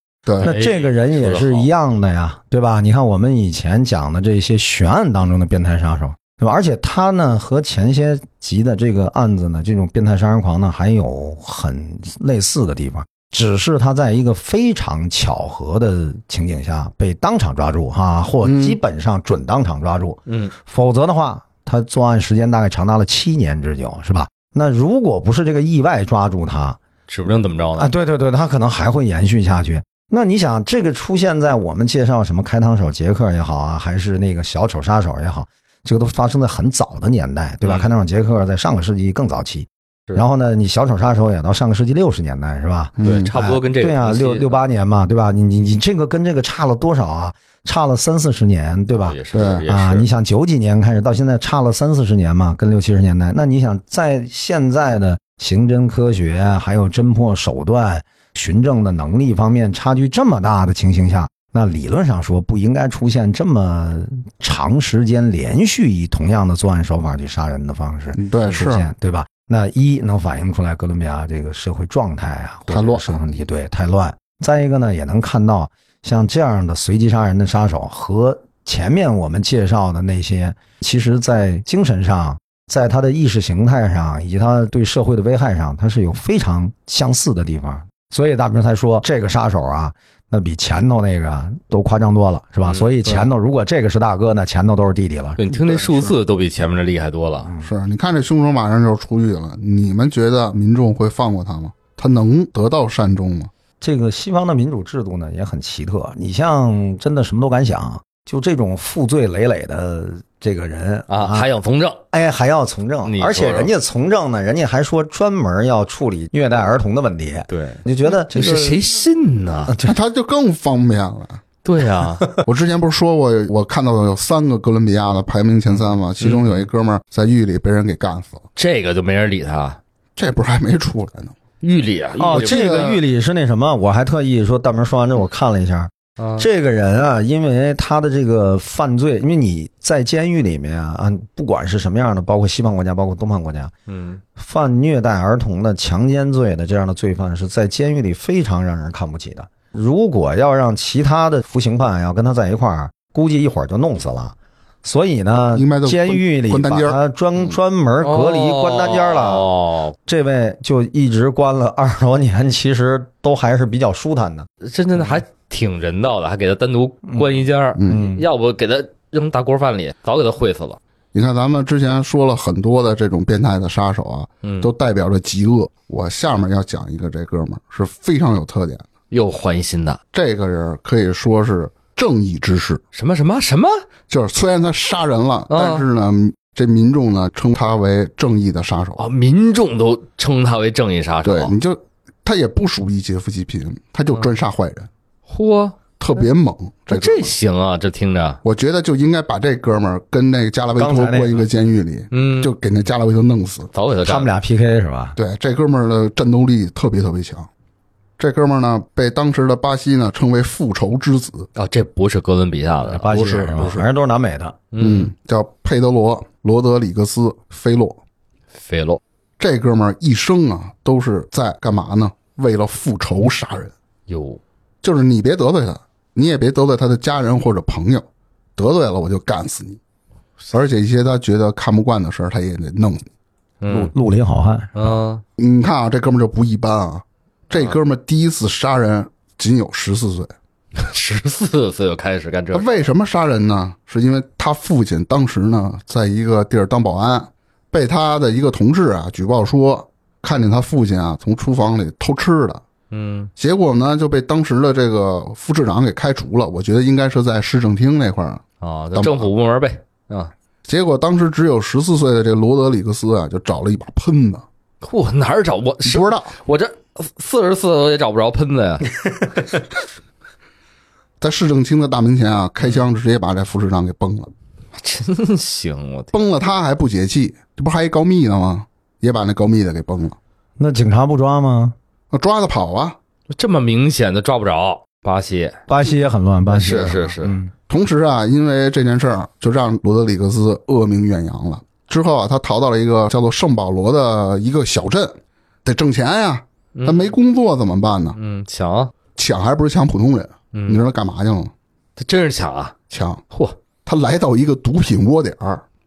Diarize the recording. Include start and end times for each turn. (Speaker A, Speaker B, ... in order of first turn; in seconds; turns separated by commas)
Speaker A: 0.2-0.5, Speaker B: 0.4-1.7, Speaker C: 0.4-26.8, Speaker A: 18.4-18.8, Speaker B: 20.3-20.5, Speaker B: 27.1-27.9, Speaker C: 27.8-95.4, Speaker A: 43.0-43.3, Speaker B: 43.0-44.6, Speaker B: 49.0-50.1, Speaker A: 49.3-49.7, Speaker A: 68.1-68.9, Speaker A: 72.7-73.2, Speaker B: 95.4-97.5, Speaker A: 95.5-96.1, Speaker A: 97.6-103.5, Speaker C: 103.8-111.5, Speaker B: 111.1-112.0, Speaker C: 112.1-118.8, Speaker B: 113.0-113.7, Speaker B: 117.5-119.7, Speaker C: 119.7-119.9, Speaker A: 119.8-121.4, Speaker B: 121.6-122.3, Speaker A: 122.4-128.4, Speaker B: 126.2-126.6, Speaker B: 128.6-129.8, Speaker A: 130.2-131.3, Speaker B: 131.6-132.9, Speaker C: 132.2-143.7, Speaker A: 132.3-133.0, Speaker B: 136.2-136.5, Speaker B: 143.9-144.2, Speaker C: 144.3-159.5, Speaker A: 155.5-157.0, Speaker B: 158.0-159.9, Speaker C: 160.1-164.5, Speaker B: 164.6-170.8, Speaker A: 167.8-168.1, Speaker C: 167.9-168.2, Speaker A: 171.1-178.9, Speaker B: 174.4-174.7, Speaker B: 179.1-180.0, Speaker A: 180.1-182.8, Speaker B: 182.9-183.7, Speaker A: 184.1-189.1, Speaker B: 185.5-185.8, Speaker B: 189.0-191.5, Speaker A: 191.2-194.9, Speaker B: 195.3-195.8, Speaker A: 196.0-197.3, Speaker B: 196.9-198.4, Speaker A: 198.4-203.7, Speaker C: 200.7-201.4, Speaker B: 202.1-202.5, Speaker B: 203.7-204.3, Speaker C: 204.0-205.2, Speaker A: 205.2-207.5, Speaker A: 208.2-211.5, Speaker B: 211.6-213.8, Speaker C: 212.9-214.6, Speaker A: 213.1-213.8, Speaker B: 214.7-215.1, Speaker A: 214.8-218.0, Speaker B: 218.5-219.0, Speaker A: 219.4-223.7, Speaker B: 224.1-224.4, Speaker A: 224.8-228.1, Speaker A: 228.6-229.8, Speaker A: 230.5-233.1, Speaker B: 233.6-233.9, Speaker C: 233.7-234.9, Speaker B: 234.7-235.2, Speaker A: 235.4-240.3, Speaker B: 240.8-242.7, Speaker A: 242.5-252.6, Speaker B: 252.9-253.3, Speaker A: 253.3-258.4, Speaker B: 258.6-260.3, Speaker A: 258.9-259.3, Speaker A: 260.6-264.4, Speaker B: 264.8-268.9, Speaker A: 265.8-266.3, Speaker A: 271.2-274.3, Speaker B: 274.8-276.1, Speaker A: 276.1-280.2, Speaker C: 280.6-281.7, Speaker A: 282.1-283.0, Speaker B: 283.3-285.6, Speaker C: 285.7-287.5, Speaker B: 286.5-287.4, Speaker A: 287.7-298.2, Speaker B: 296.7-297.1, Speaker B: 298.1-298.9, Speaker A: 299.1-301.5, Speaker B: 300.5-300.8, Speaker B: 302.0-302.8, Speaker A: 302.9-303.2, Speaker B: 303.3-303.6, Speaker A: 303.8-305.6